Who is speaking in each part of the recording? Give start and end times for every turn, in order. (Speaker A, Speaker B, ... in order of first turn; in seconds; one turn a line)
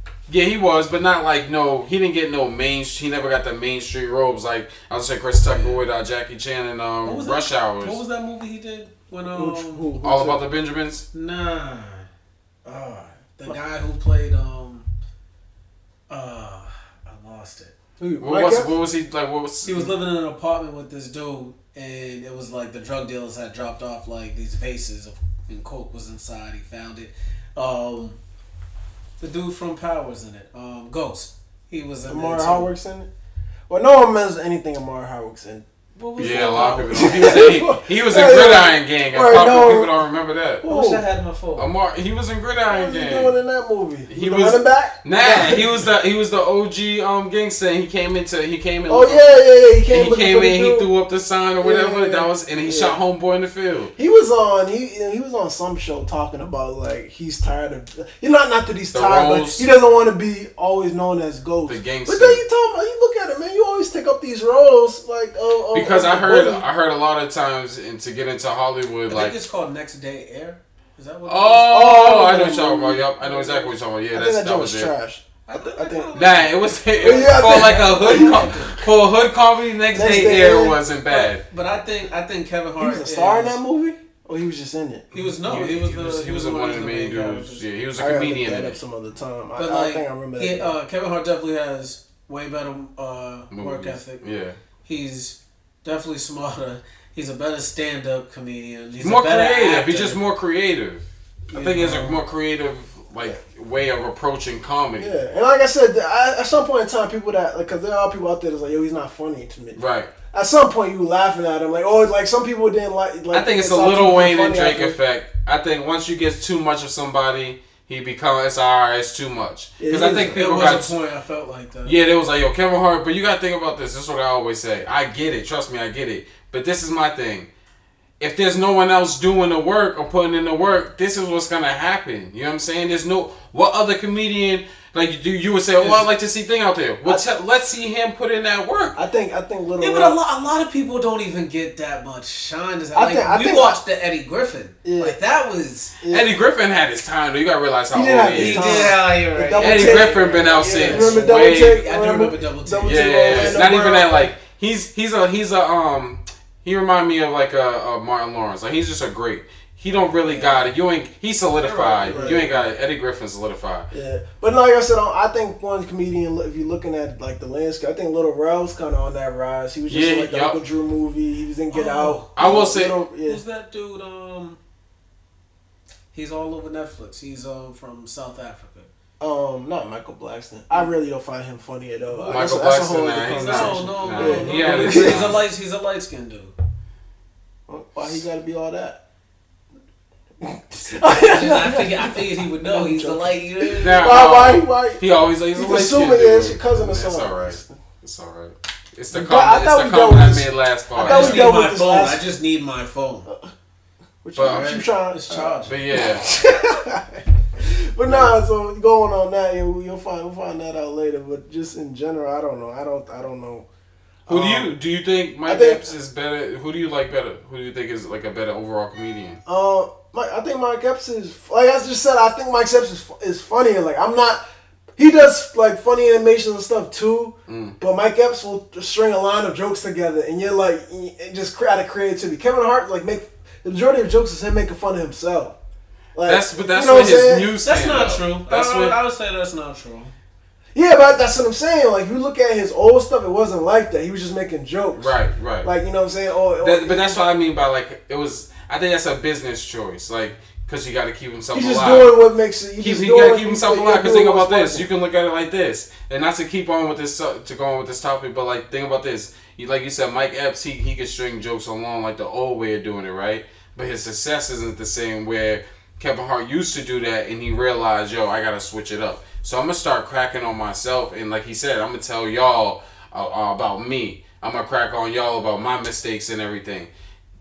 Speaker A: 0.3-8.0
Speaker B: 5.4-5.8
Speaker B: 7.0-9.9
Speaker C: 9.3-10.4
Speaker A: 10.0-11.0
Speaker B: 11.1-12.1
Speaker C: 12.6-13.6
Speaker B: 13.4-14.9
Speaker B: 16.1-17.8
Speaker C: 18.0-18.7
Speaker A: 18.2-19.9
Speaker B: 19.6-28.2
Speaker B: 29.2-32.7
Speaker C: 32.1-33.1
Speaker C: 33.7-39.9
Speaker B: 36.0-37.5
Speaker A: 36.2-40.6
Speaker B: 40.6-41.7
Speaker C: 40.6-41.0
Speaker A: 41.5-43.3
Speaker C: 42.6-45.7
Speaker A: 44.1-49.3
Speaker C: 48.9-50.9
Speaker A: 49.9-53.9
Speaker C: 51.6-53.0
Speaker C: 54.0-66.6
Speaker A: 58.9-59.6
Speaker A: 61.6-62.4
Speaker A: 65.7-69.4
Speaker B: 69.1-71.9
Speaker A: 71.2-74.9
Speaker C: 71.6-76.2
Speaker B: 75.5-78.8
Speaker A: 76.1-81.4
Speaker C: 77.0-78.8
Speaker C: 79.9-80.8
Speaker B: 81.1-83.6
Speaker C: 82.8-85.1
Speaker B: 85.1-87.7
Speaker A: 85.4-88.8
Speaker C: 88.0-90.7
Speaker B: 89.6-94.2
Speaker A: 93.5-94.6
Speaker B: 94.8-100.2
Speaker A: 99.0-105.1
Speaker B: 101.5-102.2
Speaker C: 105.0-109.8
Speaker A: 109.7-110.1
Speaker C: 110.3-115.0
Speaker A: 113.3-120.9
Speaker C: 119.8-120.8
Speaker B: 119.9-122.0
Speaker A: 121.8-127.5
Speaker A: 128.2-139.0
Speaker C: 138.9-140.2
Speaker B: 139.8-146.0
Speaker C: 142.9-143.8
Speaker C: 144.8-145.2
Speaker C: 146.0-146.3
Speaker A: 146.1-149.0
Speaker C: 147.9-154.3
Speaker B: 148.3-153.8
Speaker A: 149.6-151.8
Speaker A: 152.8-163.9
Speaker B: 161.6-162.6
Speaker C: 162.1-162.5
Speaker C: 163.9-173.4
Speaker A: 169.9-170.6
Speaker B: 171.7-174.6
Speaker A: 172.3-172.9
Speaker B: 176.1-178.9
Speaker C: 179.2-185.4
Speaker B: 182.1-182.5
Speaker A: 182.3-185.4
Speaker B: 183.2-186.5
Speaker C: 187.7-189.0
Speaker C: 190.4-195.0
Speaker B: 191.0-194.3
Speaker A: 193.8-201.5
Speaker C: 195.5-197.8
Speaker C: 199.1-202.2
Speaker B: 200.9-203.3
Speaker C: 204.2-213.7
Speaker A: 204.3-204.7
Speaker B: 204.4-205.8
Speaker A: 205.6-206.2
Speaker C: 214.2-214.7
Speaker A: 214.3-219.4
Speaker C: 215.4-215.8
Speaker C: 219.4-224.4
Speaker C: 225.0-235.6
Speaker A: 227.5-227.8
Speaker C: 236.2-237.5
Speaker A: 236.2-239.0
Speaker B: 237.6-240.1
Speaker C: 240.7-247.2
Speaker A: 244.9-245.7
Speaker A: 246.6-252.2
Speaker C: 251.5-254.8
Speaker A: 252.8-276.9